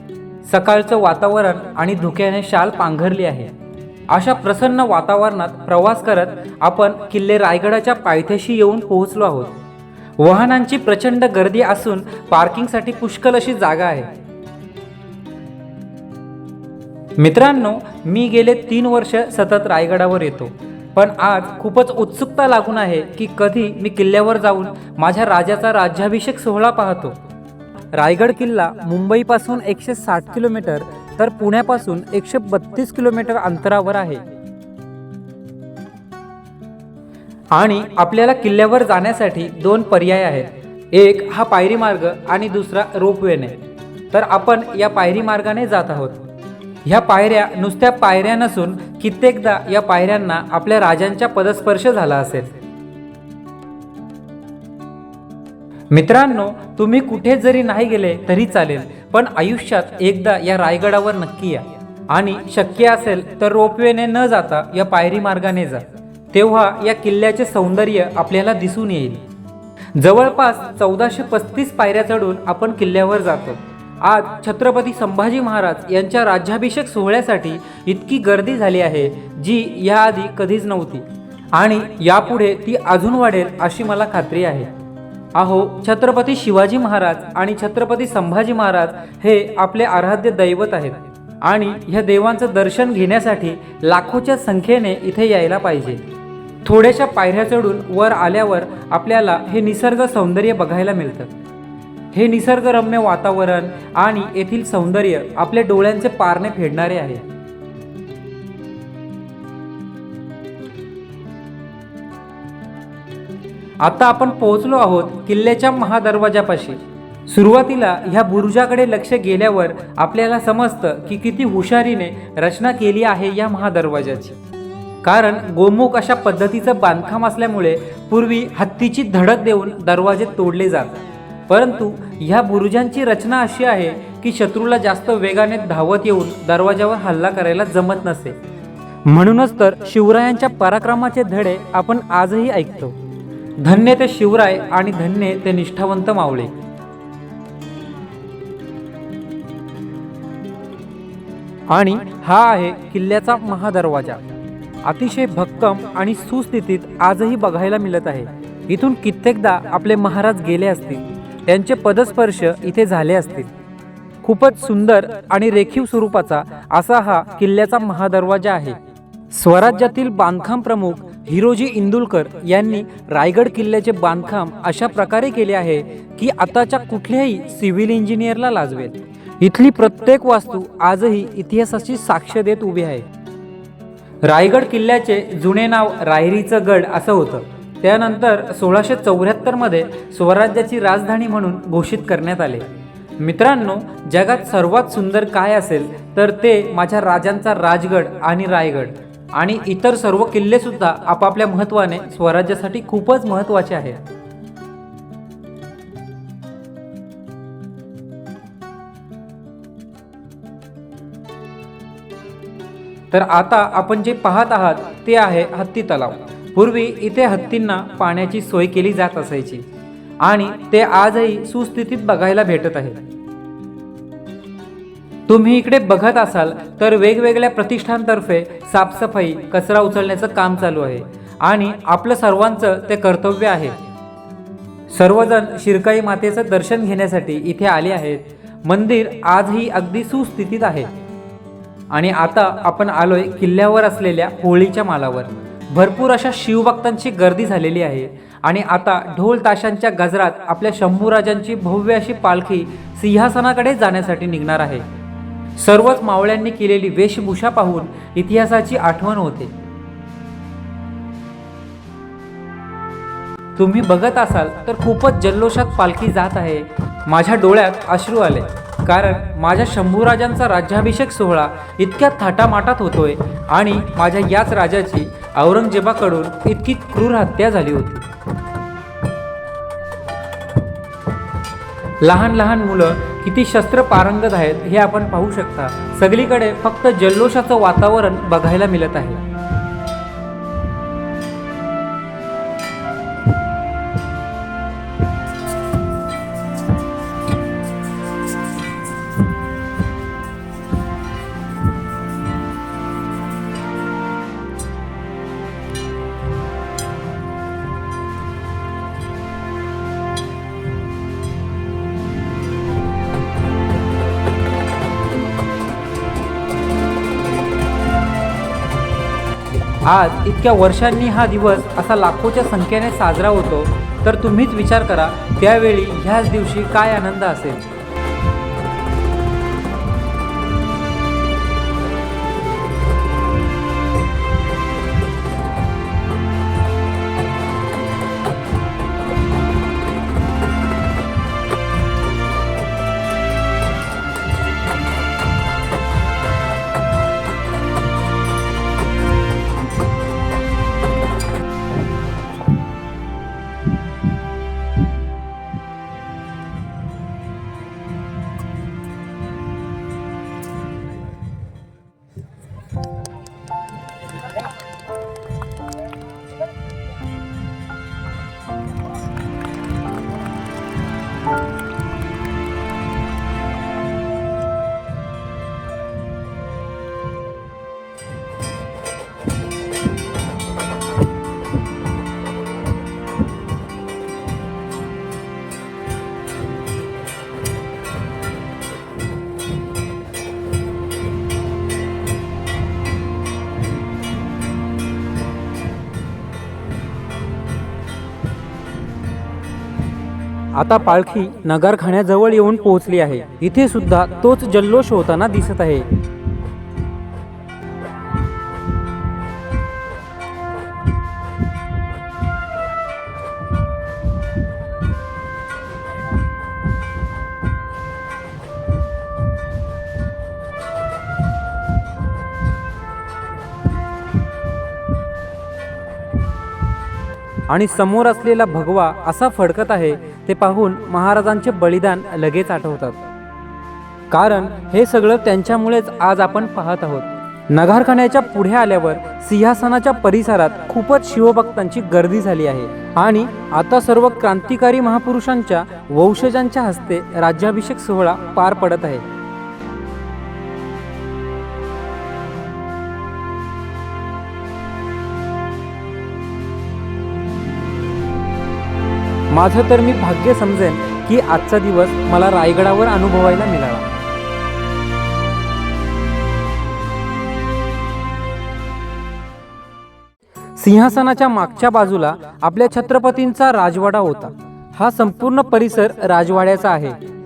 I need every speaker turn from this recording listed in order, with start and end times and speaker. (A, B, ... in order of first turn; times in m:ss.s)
0:00.4-0:03.5 A
0:04.1-0:09.6 A
0:10.2-0:14.1 A
0:17.2-0:27.2 A
0:27.9-0:34.2 A
0:37.5-0:46.2 A
0:46.8-0:52.5 A
0:55.9-1:09.2 A
1:09.9-1:24.7 A
1:25.3-1:36.0 A
1:36.6-1:41.4 A
1:42.1-1:47.2 A
1:53.8-2:04.4 A
2:05.0-2:18.4 A
2:19.0-2:23.0 A
2:23.6-2:26.5 A
2:31.7-2:34.2 A
2:34.8-2:43.5 A
2:44.2-2:48.8 A
2:49.3-3:03.1 A
3:04.2-3:12.7 A
3:13.2-3:24.0 A
3:33.1-3:39.7 A
3:40.2-3:43.0 A
3:45.3-3:53.8 A
3:54.9-4:00.9 A
4:01.9-4:14.8 A
4:15.6-4:19.5 A
4:23.6-4:38.1 A
4:42.0-4:49.2 A
5:19.8-5:27.6 A
6:40.5-6:45.9 A
7:07.5-7:13.0 A
7:14.1-7:29.0 A
7:39.3-7:43.9 A
7:50.6-7:57.0 A